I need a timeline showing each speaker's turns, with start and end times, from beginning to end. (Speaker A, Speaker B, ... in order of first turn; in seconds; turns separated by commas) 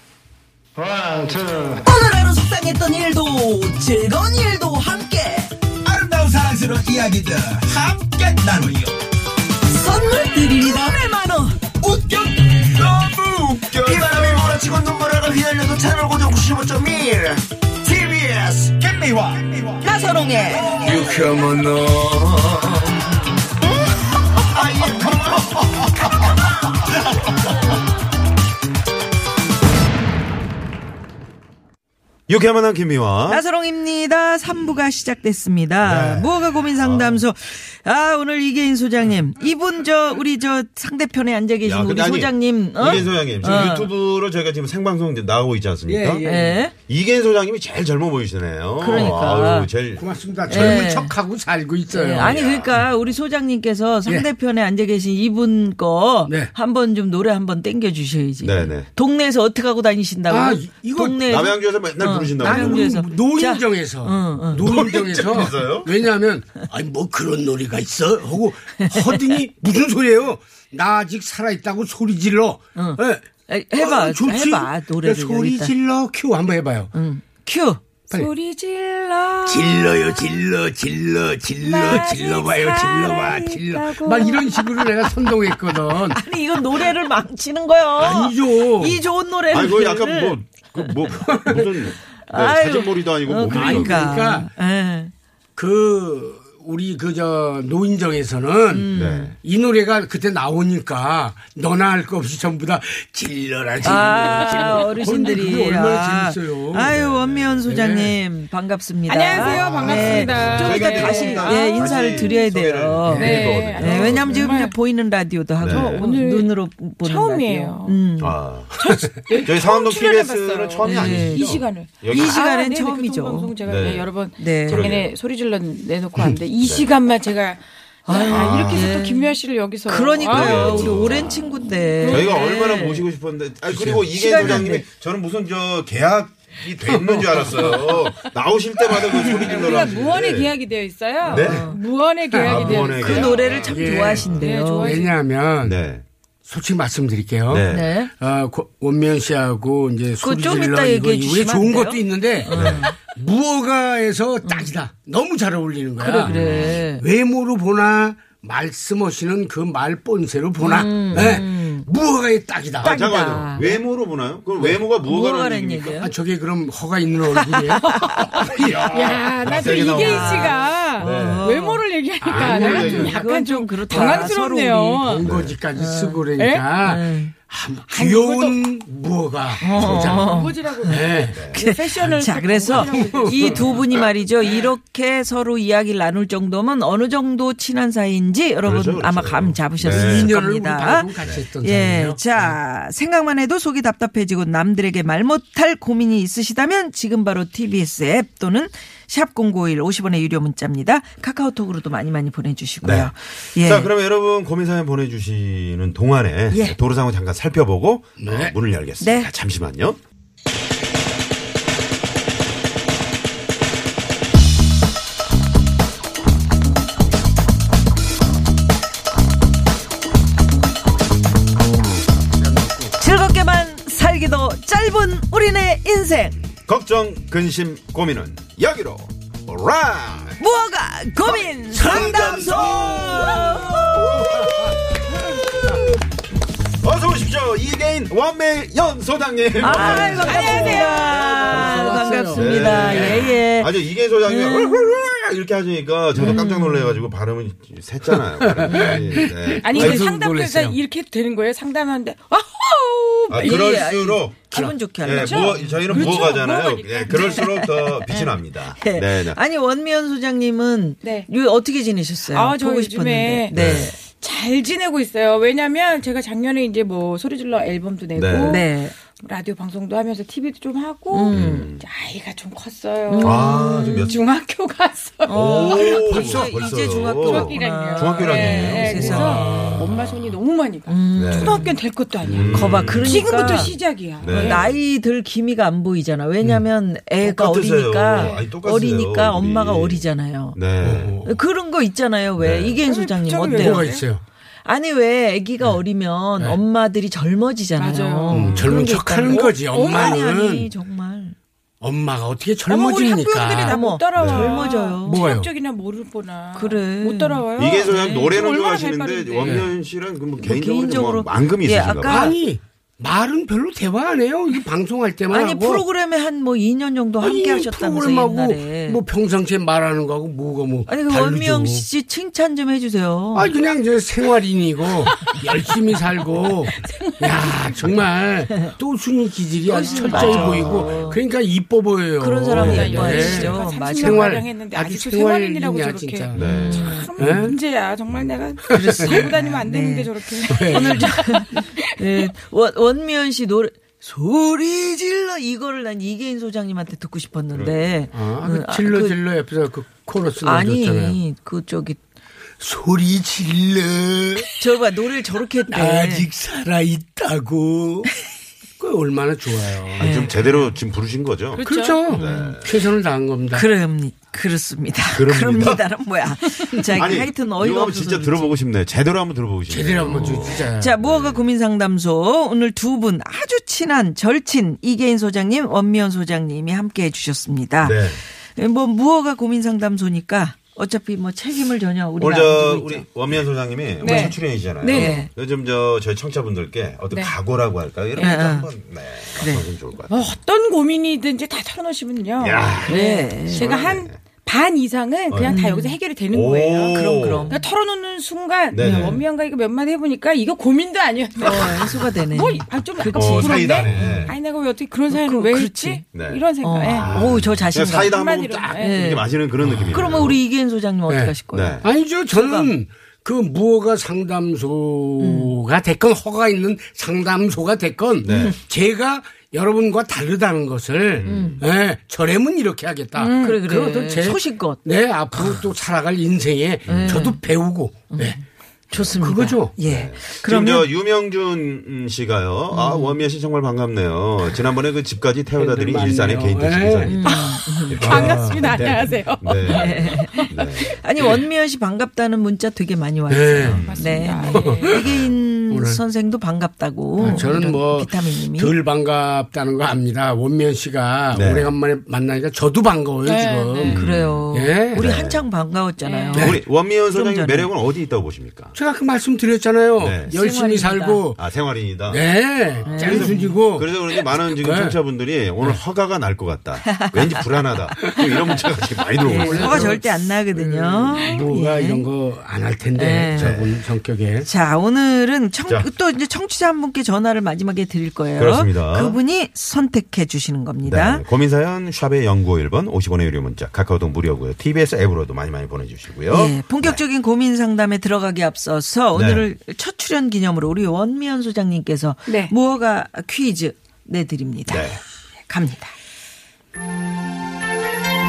Speaker A: 1.8-5.5, Speaker B: 5.9-8.4, Speaker C: 5.9-8.9, Speaker A: 9.6-11.6, Speaker C: 11.9-13.2, Speaker B: 11.9-14.5, Speaker C: 13.8-19.2, Speaker B: 18.2-19.4, Speaker A: 19.8-20.8, Speaker C: 20.7-22.2, Speaker B: 20.8-22.8, Speaker B: 24.5-25.8, Speaker C: 25.0-25.6, Speaker B: 32.3-33.4, Speaker A: 33.3-43.9, Speaker B: 35.8-37.2, Speaker B: 41.6-46.2, Speaker D: 45.9-46.6, Speaker A: 46.2-46.7, Speaker B: 46.9-50.8, Speaker A: 48.8-49.7, Speaker D: 50.0-52.4, Speaker A: 50.5-51.1, Speaker A: 51.9-64.7, Speaker B: 52.2-53.1, Speaker D: 56.3-56.5, Speaker B: 58.4-58.9, Speaker D: 60.3-61.2, Speaker B: 61.2-62.9, Speaker D: 62.4-76.9, Speaker B: 64.6-65.9, Speaker A: 68.8-69.3, Speaker A: 72.7-75.7, Speaker A: 76.9-77.8, Speaker E: 78.1-80.4, Speaker D: 79.4-86.2, Speaker E: 81.6-84.9, Speaker A: 85.9-91.0, Speaker D: 88.0-89.0, Speaker B: 89.5-94.1, Speaker D: 91.2-91.7, Speaker A: 92.2-95.1, Speaker D: 93.5-94.5, Speaker D: 95.5-106.9, Speaker A: 98.7-99.3, Speaker B: 98.9-99.3, Speaker A: 103.8-118.4, Speaker B: 106.9-107.6, Speaker D: 107.7-108.2, Speaker E: 109.1-112.4, Speaker B: 109.3-114.6, Speaker D: 113.0-113.6, Speaker E: 113.1-114.8, Speaker B: 115.6-116.0, Speaker E: 115.7-118.0, Speaker B: 118.2-118.8, Speaker E: 118.8-131.1, Speaker B: 119.4-122.4, Speaker A: 120.8-123.6, Speaker B: 123.6-124.1, Speaker A: 124.4-124.9, Speaker B: 124.7-125.1, Speaker B: 126.6-126.9, Speaker A: 128.1-129.3, Speaker B: 128.2-128.9, Speaker A: 129.8-133.1, Speaker B: 130.3-131.5, Speaker E: 131.9-132.3, Speaker B: 132.1-140.5, Speaker D: 133.7-134.6, Speaker A: 134.1-134.8, Speaker D: 136.8-138.1, Speaker E: 139.2-143.6, Speaker B: 141.2-141.7, Speaker A: 141.2-141.8, Speaker D: 142.3-142.6, Speaker B: 142.4-144.5, Speaker A: 142.4-145.1, Speaker D: 143.6-145.8, Speaker E: 144.3-145.2, Speaker B: 145.6-146.0, Speaker D: 146.4-163.0, Speaker B: 147.5-147.9, Speaker A: 147.7-148.1, Speaker A: 150.2-153.0, Speaker B: 152.5-152.9, Speaker A: 154.4-154.7, Speaker A: 156.0-157.0, Speaker B: 156.2-156.8, Speaker A: 160.6-161.9, Speaker B: 161.1-161.4, Speaker B: 162.8-166.0, Speaker A: 162.8-163.8, Speaker D: 164.6-164.8, Speaker A: 165.0-166.1, Speaker D: 166.0-167.9, Speaker A: 167.8-168.4, Speaker E: 167.9-168.3, Speaker D: 168.4-170.3, Speaker B: 168.6-171.5, Speaker E: 169.0-175.3, Speaker A: 169.9-171.8, Speaker B: 172.2-173.2, Speaker D: 172.2-173.3, Speaker A: 172.7-175.1, Speaker D: 173.9-174.2, Speaker D: 175.0-180.3, Speaker B: 175.2-175.6, Speaker A: 175.7-176.2, Speaker E: 176.4-176.8, Speaker A: 176.8-177.3, Speaker E: 177.9-178.6, Speaker A: 179.6-181.0, Speaker B: 179.7-180.2, Speaker E: 179.7-183.9, Speaker D: 180.9-181.4, Speaker B: 181.3-181.6, Speaker A: 181.5-203.9, Speaker D: 182.7-184.0, Speaker B: 188.6-190.3, Speaker D: 189.8-192.2, Speaker B: 202.8-210.0, Speaker A: 206.5-206.8, Speaker D: 208.2-208.5, Speaker A: 209.0-209.3, Speaker D: 222.4-222.9, Speaker A: 223.0-226.3, Speaker B: 226.7-230.4, Speaker A: 230.4-234.3, Speaker D: 231.7-233.8, Speaker B: 231.7-235.9, Speaker D: 234.4-235.2, Speaker B: 236.8-250.0, Speaker A: 239.6-245.0, Speaker E: 239.6-241.2, Speaker D: 239.7-243.2, Speaker A: 246.1-247.1, Speaker D: 248.2-250.8, Speaker E: 249.6-253.8, Speaker B: 253.3-259.4, Speaker A: 253.3-256.4, Speaker E: 255.1-258.3, Speaker A: 257.1-258.0, Speaker A: 258.8-263.9, Speaker E: 261.0-261.3, Speaker E: 262.3-276.3, Speaker B: 263.5-263.9, Speaker B: 268.1-268.6, Speaker A: 268.4-268.9, Speaker A: 271.1-271.7, Speaker B: 271.3-271.8, Speaker A: 273.1-274.2, Speaker B: 273.2-274.2, Speaker A: 275.2-279.9, Speaker B: 275.3-280.4, Speaker D: 276.1-276.5, Speaker E: 277.2-284.7, Speaker A: 280.9-281.7, Speaker B: 281.1-281.7, Speaker B: 282.2-284.8, Speaker D: 282.4-282.8, Speaker A: 282.5-283.7, Speaker A: 284.2-290.6, Speaker B: 287.2-291.2, Speaker D: 290.8-291.4, Speaker A: 291.2-293.9, Speaker B: 292.4-292.8, Speaker E: 292.8-294.0, Speaker D: 293.5-294.2, Speaker A: 294.6-301.4, Speaker E: 297.8-298.6, Speaker D: 298.3-300.7, Speaker B: 298.5-298.8, Speaker E: 299.3-300.3, Speaker D: 301.8-303.8, Speaker E: 302.7-309.6, Speaker A: 303.7-305.2, Speaker B: 304.1-304.7, Speaker D: 305.0-305.5, Speaker A: 306.5-308.0, Speaker B: 307.6-312.4, Speaker D: 309.4-309.7, Speaker A: 310.4-312.4, Speaker D: 312.0-315.8, Speaker A: 315.3-319.0, Speaker D: 317.2-321.9, Speaker A: 320.9-323.5, Speaker D: 323.3-336.5, Speaker A: 327.1-327.6, Speaker A: 329.6-331.2, Speaker E: 329.9-330.4, Speaker B: 330.1-330.9, Speaker A: 332.2-334.4, Speaker E: 332.5-342.2, Speaker B: 336.3-337.0, Speaker A: 336.4-337.1, Speaker D: 337.2-337.6, Speaker A: 338.7-349.2, Speaker D: 338.8-339.2, Speaker D: 340.5-341.1, Speaker B: 347.5-348.1, Speaker D: 348.1-351.2, Speaker A: 350.4-352.0, Speaker D: 352.6-354.6, Speaker A: 354.5-356.3, Speaker D: 355.7-358.1, Speaker D: 358.8-360.2, Speaker B: 360.0-362.8, Speaker A: 360.0-360.7, Speaker E: 361.6-362.0, Speaker D: 361.6-363.6, Speaker A: 362.1-362.6, Speaker A: 363.5-368.6, Speaker B: 365.1-365.9, Speaker B: 366.9-371.5, Speaker D: 369.7-370.9, Speaker A: 370.7-383.1, Speaker B: 377.8-378.2, Speaker B: 382.2-390.1, Speaker E: 384.0-385.2, Speaker A: 384.0-384.3, Speaker A: 384.9-385.3, Speaker E: 388.1-388.4, Speaker A: 388.2-388.7, Speaker A: 389.3-389.6, Speaker E: 390.1-397.0, Speaker B: 392.4-393.0, Speaker A: 392.9-393.7, Speaker B: 393.5-394.2, Speaker B: 395.3-395.6, Speaker A: 395.4-395.9, Speaker B: 396.3-397.5, Speaker A: 396.9-397.7, Speaker E: 397.5-407.1, Speaker B: 398.7-399.2, Speaker A: 398.8-399.2, Speaker B: 401.4-402.1, Speaker A: 401.4-404.3, Speaker B: 403.0-404.3, Speaker A: 405.1-406.0, Speaker B: 406.1-410.4, Speaker A: 406.6-408.2, Speaker E: 408.0-408.9, Speaker D: 408.6-408.9, Speaker A: 408.8-409.3, Speaker D: 409.6-410.3, Speaker A: 409.9-412.7, Speaker D: 411.1-428.4, Speaker B: 411.5-411.9, Speaker A: 415.2-415.5, Speaker B: 418.2-418.6, Speaker A: 418.3-418.6, Speaker B: 421.2-421.6, Speaker A: 421.2-421.6, Speaker E: 423.2-423.6, Speaker A: 423.4-425.6, Speaker B: 426.9-427.3, Speaker A: 426.9-427.4, Speaker A: 428.1-430.9, Speaker D: 429.0-429.7, Speaker B: 429.8-441.0, Speaker A: 432.7-433.2, Speaker D: 435.5-437.4, Speaker A: 437.0-439.0, Speaker E: 437.2-440.6, Speaker D: 438.0-438.6, Speaker A: 439.6-448.7, Speaker D: 443.3-443.8, Speaker B: 443.6-444.0, Speaker E: 443.6-445.0, Speaker D: 444.5-444.9, Speaker B: 444.8-445.4, Speaker D: 445.7-446.0, Speaker D: 447.2-455.0, Speaker B: 451.3-451.7, Speaker E: 453.2-453.9, Speaker B: 453.9-454.4, Speaker A: 453.9-457.7, Speaker B: 454.9-455.4, Speaker E: 456.0-456.4, Speaker D: 456.3-456.6, Speaker B: 456.4-458.8, Speaker D: 458.7-461.4, Speaker B: 460.0-460.3, Speaker A: 460.3-461.2, Speaker B: 461.4-470.0, Speaker D: 462.1-465.0, Speaker A: 462.8-463.6, Speaker A: 466.9-467.4, Speaker D: 468.0-468.6, Speaker D: 469.2-474.5, Speaker A: 469.2-472.0, Speaker A: 472.9-473.6, Speaker B: 473.3-473.8, Speaker A: 474.4-481.2, Speaker B: 478.4-479.2, Speaker B: 480.8-487.0, Speaker A: 486.3-495.0, Speaker B: 489.1-489.5, Speaker E: 492.3-492.5, Speaker B: 494.7-495.0, Speaker A: 495.5-495.9